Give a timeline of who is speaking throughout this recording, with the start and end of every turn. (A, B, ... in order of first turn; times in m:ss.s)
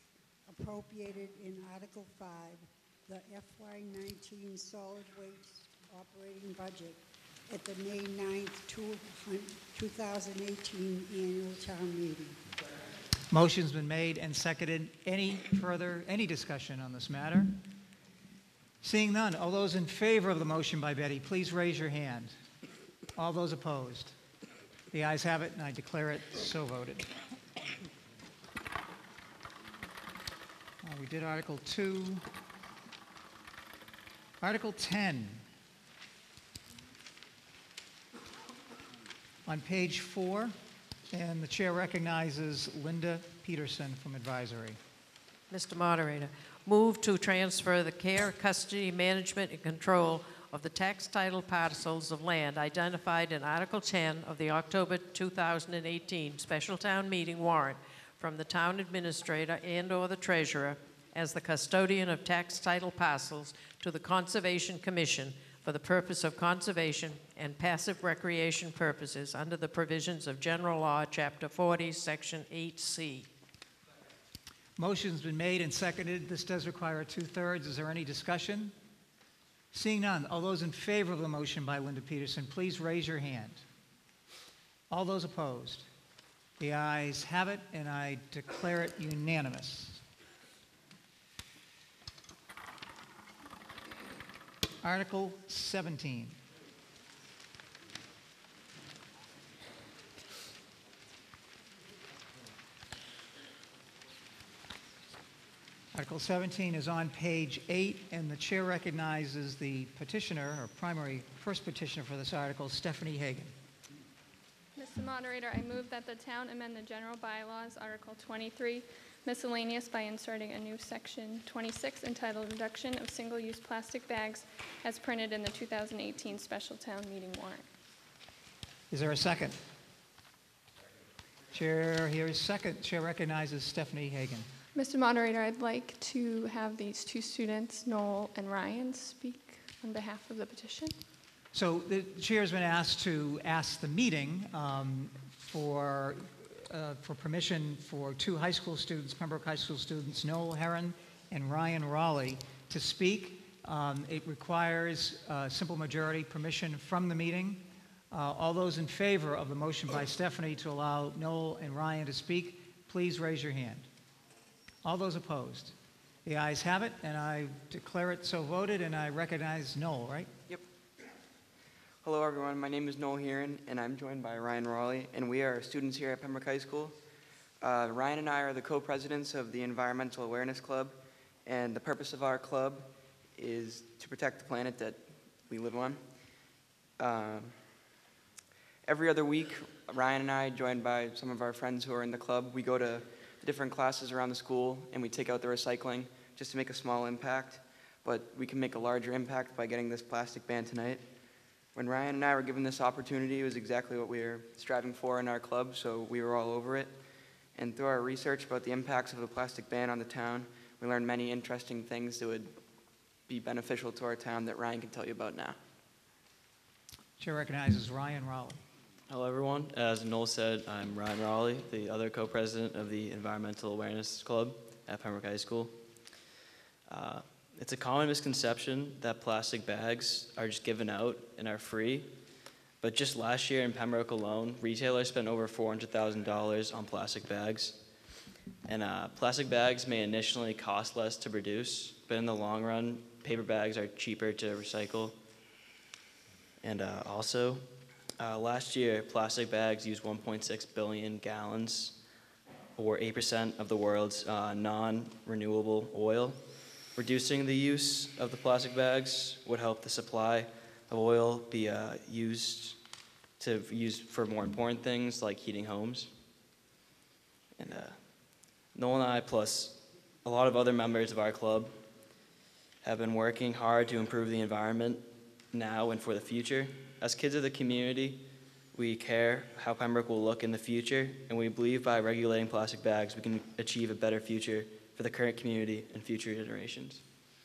0:00.5-0:12.4 A
0:13.3-0:17.6 B
0:18.8-0:22.4 B
0:23.2-0:24.2 B
0:24.9-0:27.1 B
0:30.8-0:32.2 B
0:34.4-0:35.4 B
0:39.4-0:40.6 B
0:41.1-0:44.8 B
0:45.5-1:13.3 C
1:14.8-1:18.7 B
1:19.7-1:23.6 B
1:24.9-1:25.9 B
1:26.6-1:30.0 B
1:34.8-1:36.4 B
1:45.9-1:53.5 B
1:54.8-2:07.7 D
2:08.9-2:09.6 B
2:11.5-2:14.5 B
2:14.7-2:21.0 D
2:21.5-2:43.9 B
2:44.8-2:50.3 B
2:52.0-2:56.9 E
2:57.6-3:00.9 E
3:01.4-3:06.0 E
3:07.0-3:07.5 E
3:08.8-3:21.0 E
3:21.7-3:26.9 E
3:27.6-3:32.5 E
3:33.3-3:35.6 E
3:37.2-3:38.6 B
3:39.1-3:45.8 F
3:46.9-3:52.1 F
3:52.8-3:57.8 F
3:58.6-4:05.2 F
4:06.6-4:12.0 F
4:12.8-4:16.4 F
4:16.9-4:22.8 F
4:23.4-4:26.1 F
4:27.6-4:31.8 F
4:32.8-4:47.0 F